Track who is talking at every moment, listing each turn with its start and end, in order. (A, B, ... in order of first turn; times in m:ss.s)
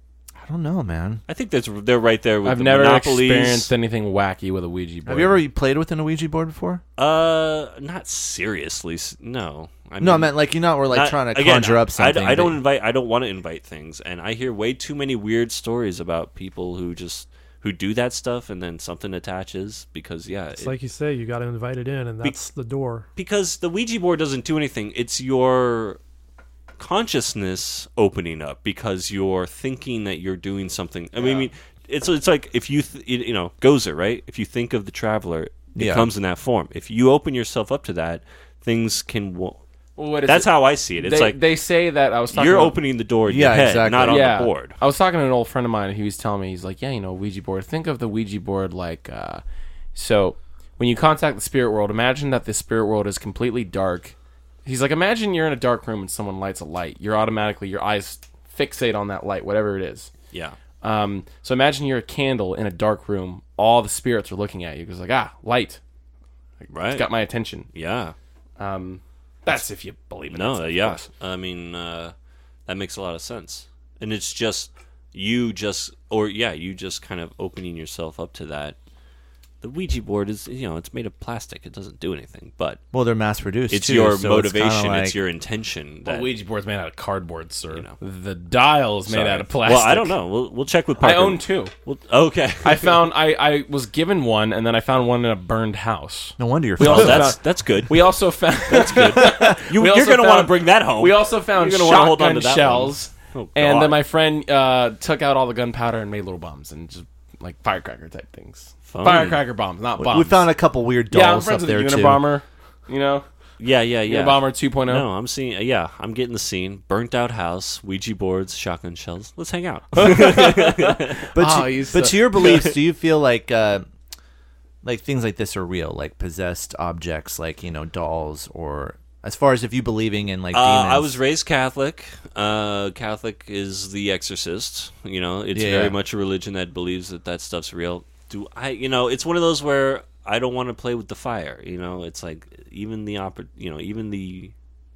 0:00.4-0:01.2 A
0:01.3-0:03.7 B
0:02.4-0:05.4 C
0:05.1-0:06.8 A
0:07.0-0:10.4 B
0:10.0-0:12.6 A
0:10.9-0:20.7 B
0:20.6-0:23.1 D
0:23.2-0:26.0 B
0:26.8-0:39.6 B
0:31.2-0:31.5 C
0:35.8-0:36.1 A
0:40.0-0:42.8 C
0:40.2-0:41.4 B
0:42.3-0:44.8 B
0:43.3-0:44.3 A
0:44.0-0:49.4 C
0:50.0-1:00.1 C
1:00.3-1:00.6 B
1:00.8-1:05.8 C
1:06.6-1:07.7 C
1:06.7-1:07.1 B
1:07.7-1:08.2 B
1:08.6-1:11.1 C
1:10.3-1:12.1 B
1:12.7-1:18.8 B
1:19.6-1:22.8 B
1:22.9-1:25.2 A
1:23.7-1:26.3 B
1:26.0-1:30.2 C
1:29.1-1:33.0 B
1:31.0-1:31.7 C
1:32.6-1:50.4 C
1:36.4-1:37.4 A
1:36.8-1:44.0 B
1:48.9-1:49.4 B
1:50.0-1:52.3 A
1:51.1-1:53.3 C
1:53.6-2:01.2 B
1:54.1-1:55.0 C
2:00.0-2:02.6 C
2:01.3-2:03.8 A
2:04.8-2:11.2 A
2:10.5-2:24.5 B
2:15.5-2:16.0 A